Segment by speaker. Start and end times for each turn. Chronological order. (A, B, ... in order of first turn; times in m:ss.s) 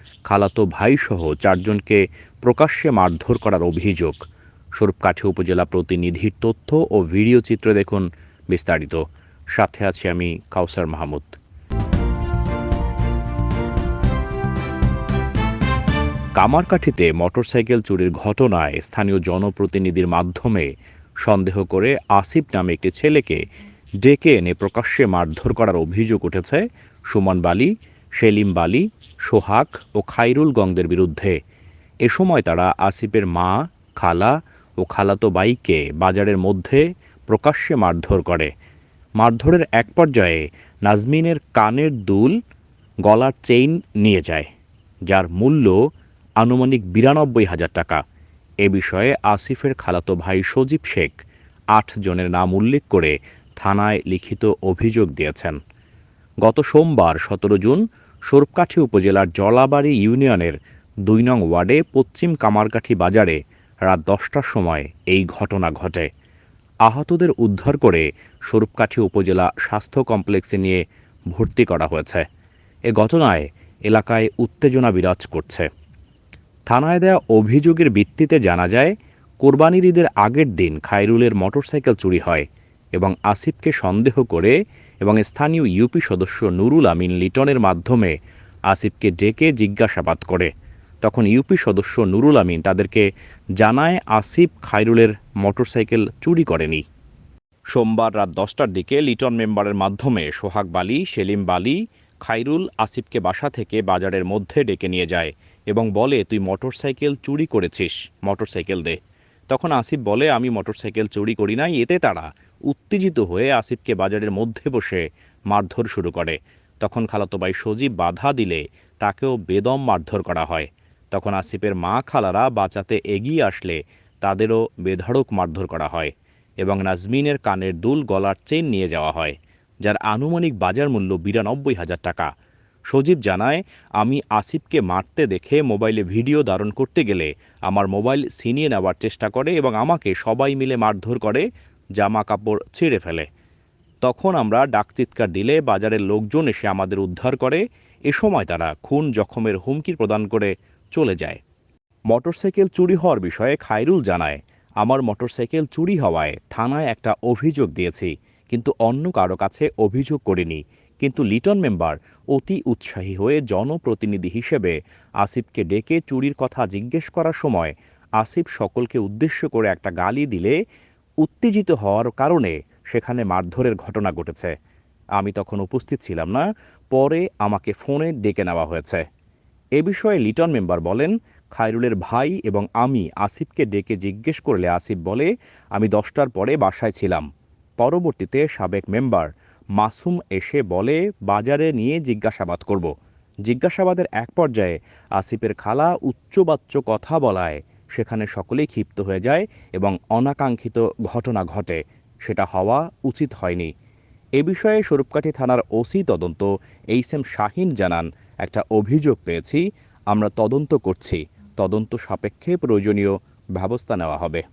0:00.3-0:04.2 A
0:04.8-0:09.0 A
0:09.5-0:11.4 A
0:16.4-0:20.7 A
0:21.2-0:23.4 A
0:24.0-0:31.4 A
0:32.0-0:38.5 A
0:39.2-0:42.3 A
0:43.0-0:44.5 A
0:45.1-0:45.8 A
0:46.4-0:48.0 A
0:48.6-0:51.1 A
0:51.7-0:55.6 A
0:56.4-1:00.5 A
1:01.1-1:06.1 A
1:06.8-1:12.2 A
1:12.9-1:15.7 A
1:16.7-1:22.4 A
1:23.0-1:28.1 A
1:28.7-1:30.5 A
1:31.0-1:33.0 A
1:33.6-1:36.8 A
1:37.7-1:49.0 A
1:49.5-2:12.3 A
2:12.9-2:23.3 A
2:24.0-2:31.4 A
2:32.1-2:50.6 A
2:51.2-2:54.5 A
2:55.2-2:59.0 A
2:59.8-3:07.2 A
3:07.8-3:12.9 A
3:13.4-3:23.7 A
3:24.4-3:34.4 A